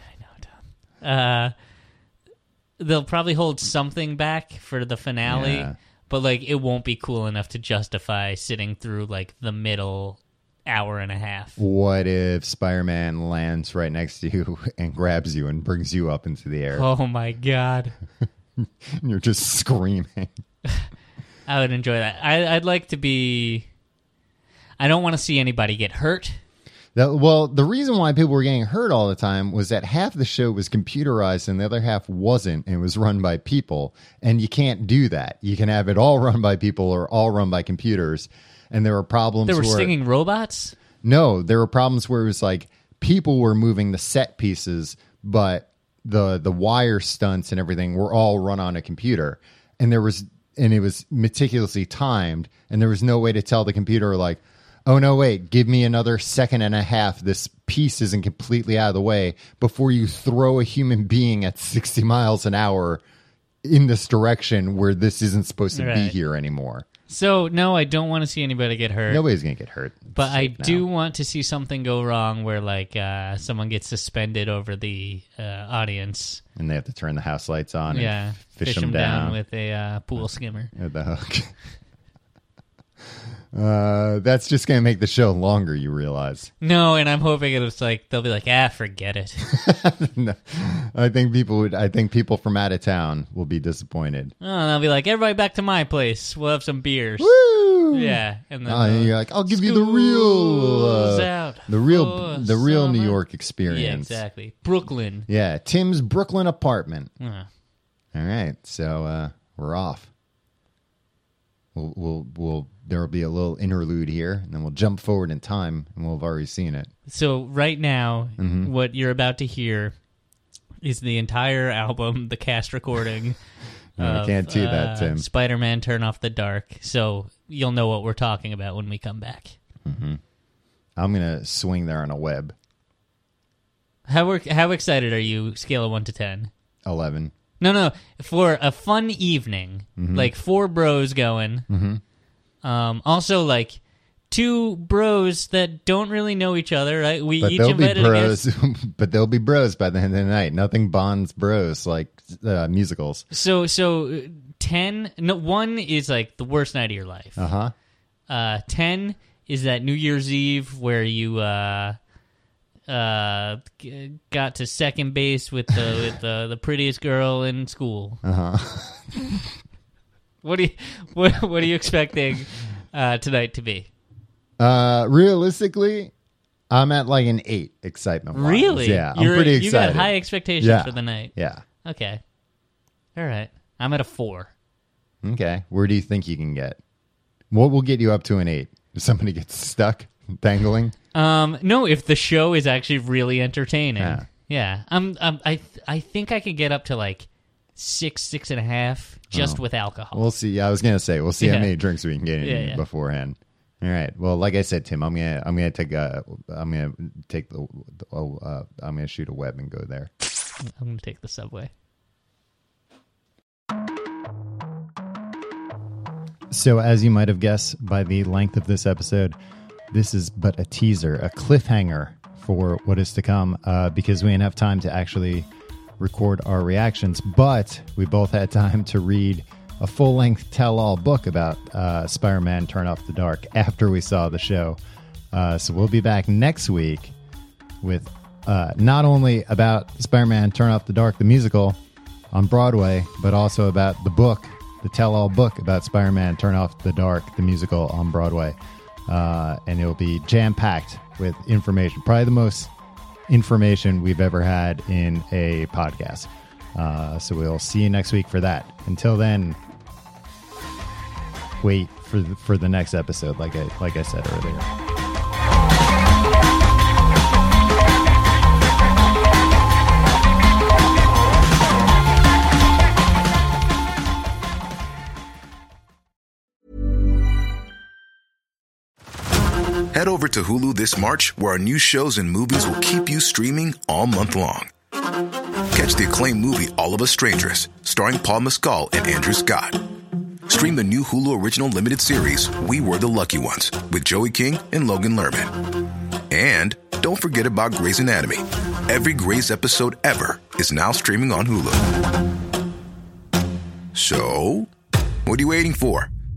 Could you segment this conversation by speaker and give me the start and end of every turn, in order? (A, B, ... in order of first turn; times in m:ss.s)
0:00.2-0:01.5 A
0:02.8-0:11.6 A
0:05.3-0:05.8 B
0:11.6-0:16.9 B
0:16.7-0:17.9 A
0:18.6-0:20.3 B
0:21.5-0:23.7 A
0:24.8-0:26.4 A
0:27.0-0:39.9 B
0:39.5-0:40.7 A
0:41.0-1:03.0 B
1:03.6-1:06.8 B
1:05.7-1:06.2 A
1:07.1-1:09.2 A
1:09.1-1:10.9 B
1:10.2-1:16.4 A
1:16.6-1:19.4 B
1:17.9-1:20.7 A
1:20.2-1:21.5 B
1:23.5-1:26.5 B
1:26.6-1:29.4 A
1:29.5-1:34.3 B
1:34.4-1:37.4 A
1:37.2-1:44.2 B
1:37.9-1:45.3 A
1:45.3-1:47.1 B
1:47.2-1:47.5 A
1:48.1-1:50.1 B
1:51.8-1:56.9 B
1:57.1-2:00.0 A
1:58.4-1:58.7 B
2:00.8-2:03.4 A
2:04.0-2:05.2 B
2:04.0-2:09.6 A
2:09.9-2:10.2 B
2:11.0-2:12.6 B
2:14.1-2:16.5 A
2:16.8-2:17.3 B
2:17.6-2:21.7 A
2:20.0-2:20.3 B
2:21.7-2:22.0 B
2:22.6-2:28.4 A
2:27.4-2:33.3 B
2:33.3-2:37.5 A
2:37.4-2:37.7 B
2:38.3-2:42.0 A
2:42.9-2:48.2 A
2:48.2-2:49.4 B
2:50.4-2:53.9 A
2:54.6-2:56.1 B
2:56.7-3:01.6 B
2:58.3-3:01.3 A
3:01.8-3:02.2 A
3:03.2-3:04.5 A
3:05.2-3:06.8 B
3:07.5-3:11.0 B
3:11.1-3:20.3 A
3:14.0-3:14.3 B
3:19.3-3:19.6 B
3:20.1-3:30.1 B
3:21.4-3:21.7 A
3:22.4-3:22.8 A
3:30.6-3:31.7 A
3:36.5-3:39.4 B
3:39.9-3:45.5 B
3:46.0-3:54.8 B
3:55.3-3:57.1 B
3:57.8-4:01.8 B
4:02.3-4:12.7 B
4:13.3-4:19.6 B
4:21.6-4:24.7 B
4:39.9-4:44.7 C
4:45.7-4:49.8 C
4:50.5-4:55.5 C
4:56.3-5:01.9 C
5:03.9-5:04.7 C
5:05.3-5:06.1 C